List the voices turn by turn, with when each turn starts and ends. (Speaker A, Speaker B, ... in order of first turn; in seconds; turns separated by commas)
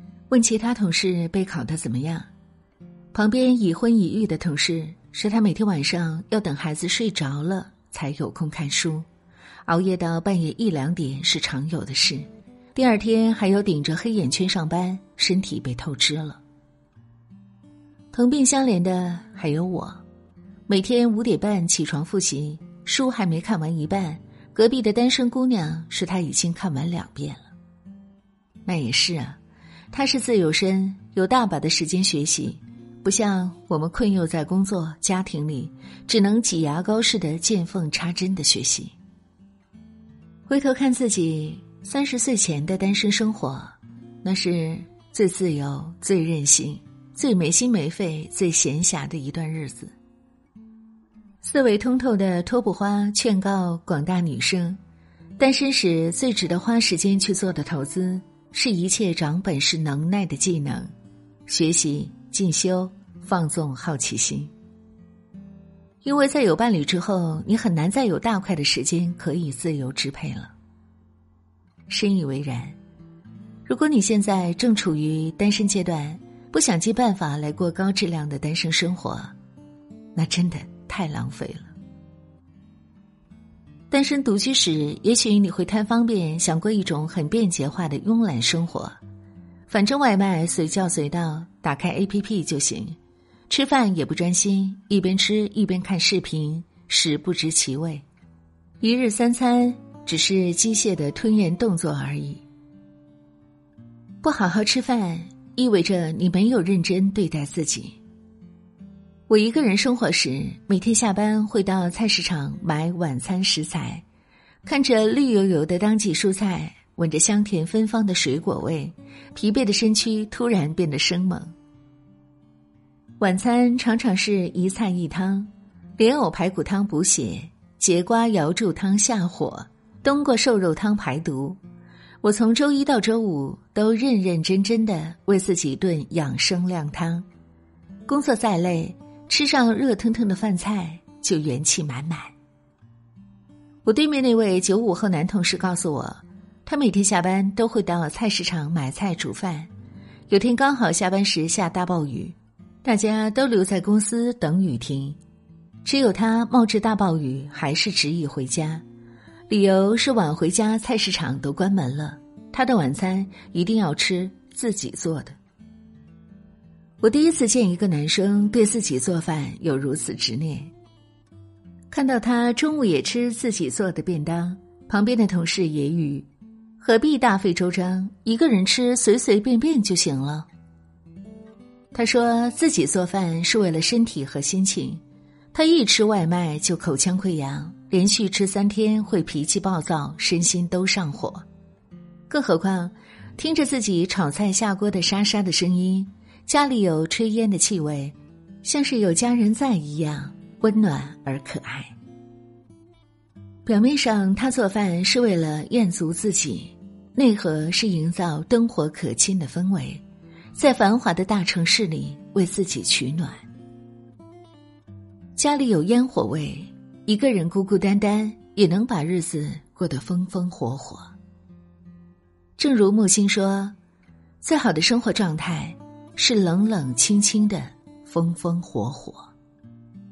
Speaker A: 0.3-2.3, Speaker A: 3.1-9.1, Speaker A: 9.7-16.4, Speaker A: 18.1-20.0, Speaker A: 20.7-27.5, Speaker A: 28.7-29.4, Speaker A: 29.9-38.9, Speaker A: 40.5-49.9, Speaker A: 51.4-54.8, Speaker A: 55.4-60.9, Speaker A: 61.5-64.5, Speaker A: 66.0-70.5, Speaker A: 71.9-72.8, Speaker A: 73.7-79.3, Speaker A: 80.1-81.7, Speaker A: 83.9-89.0, Speaker A: 89.7-93.0, Speaker A: 93.5-98.0, Speaker A: 98.8-102.4, Speaker A: 104.2-108.0, Speaker A: 109.3-114.0, Speaker A: 114.6-121.5, Speaker A: 123.2-131.6, Speaker A: 132.2-137.3, Speaker A: 138.1-142.3, Speaker A: 143.8-149.7, Speaker A: 150.3-155.2, Speaker A: 155.8-158.8, Speaker A: 159.5-165.4, Speaker A: 167.0-170.7, Speaker A: 171.9-176.3, Speaker A: 176.8-180.5, Speaker A: 181.9-185.0, Speaker A: 185.5-191.4, Speaker A: 192.3-201.9, Speaker A: 203.7-210.0, Speaker A: 210.6-213.4, Speaker A: 215.4-221.1, Speaker A: 222.6-223.8, Speaker A: 224.4-229.3